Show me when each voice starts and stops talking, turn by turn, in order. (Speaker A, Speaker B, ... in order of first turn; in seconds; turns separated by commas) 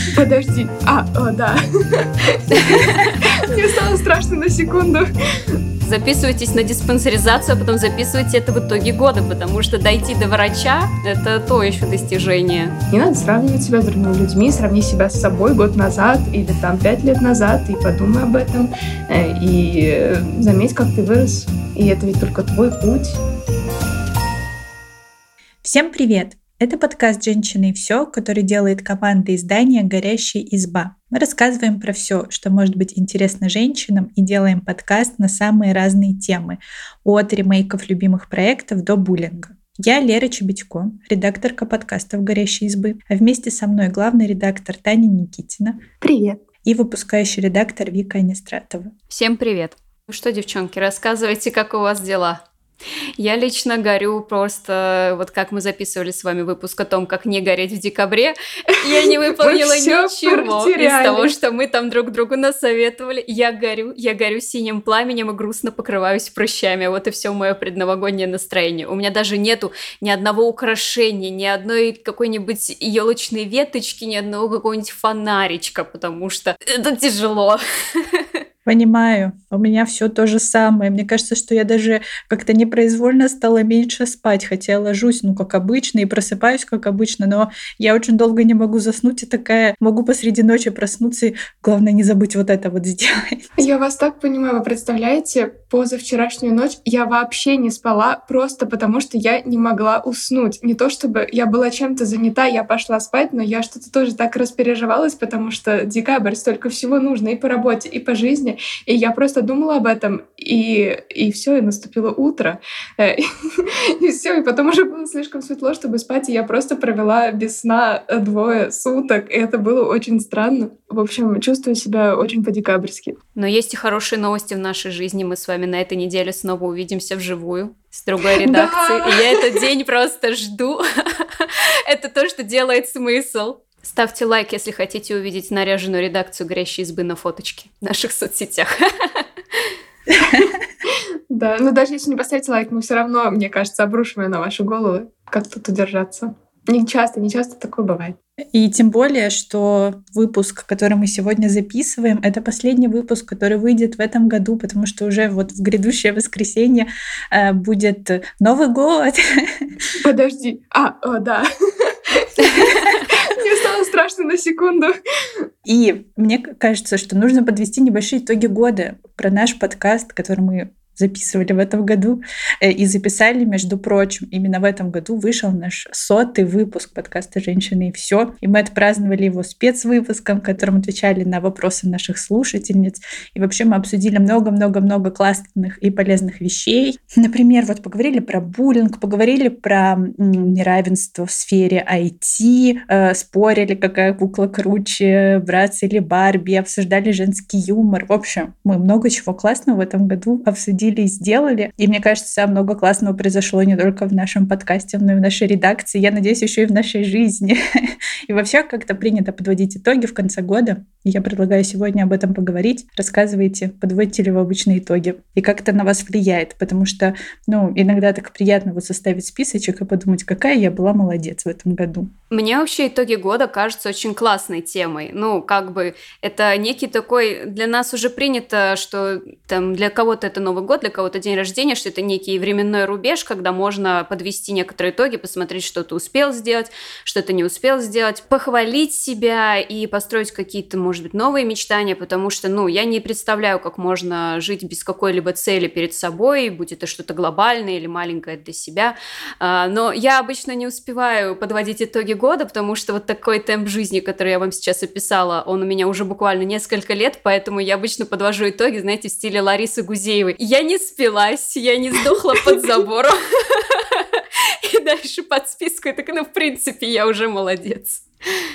Speaker A: 0.1-5.6, Speaker B: 2.5-3.2, Speaker B: 5.8-12.8, Speaker A: 12.9-23.2, Speaker C: 25.6-45.8, Speaker A: 46.0-46.4, Speaker C: 46.6-48.9, Speaker B: 49.1-52.4, Speaker B: 53.2-78.3, Speaker A: 58.9-61.4, Speaker C: 78.7-93.4, Speaker A: 93.6-123.2, Speaker B: 123.4-139.7, Speaker A: 128.4-129.6, Speaker C: 140.3-140.6, Speaker A: 140.9-148.2, Speaker C: 148.5-159.7, Speaker A: 160.0-165.4, Speaker B: 162.4-163.0, Speaker C: 165.7-222.1, Speaker B: 222.3-268.0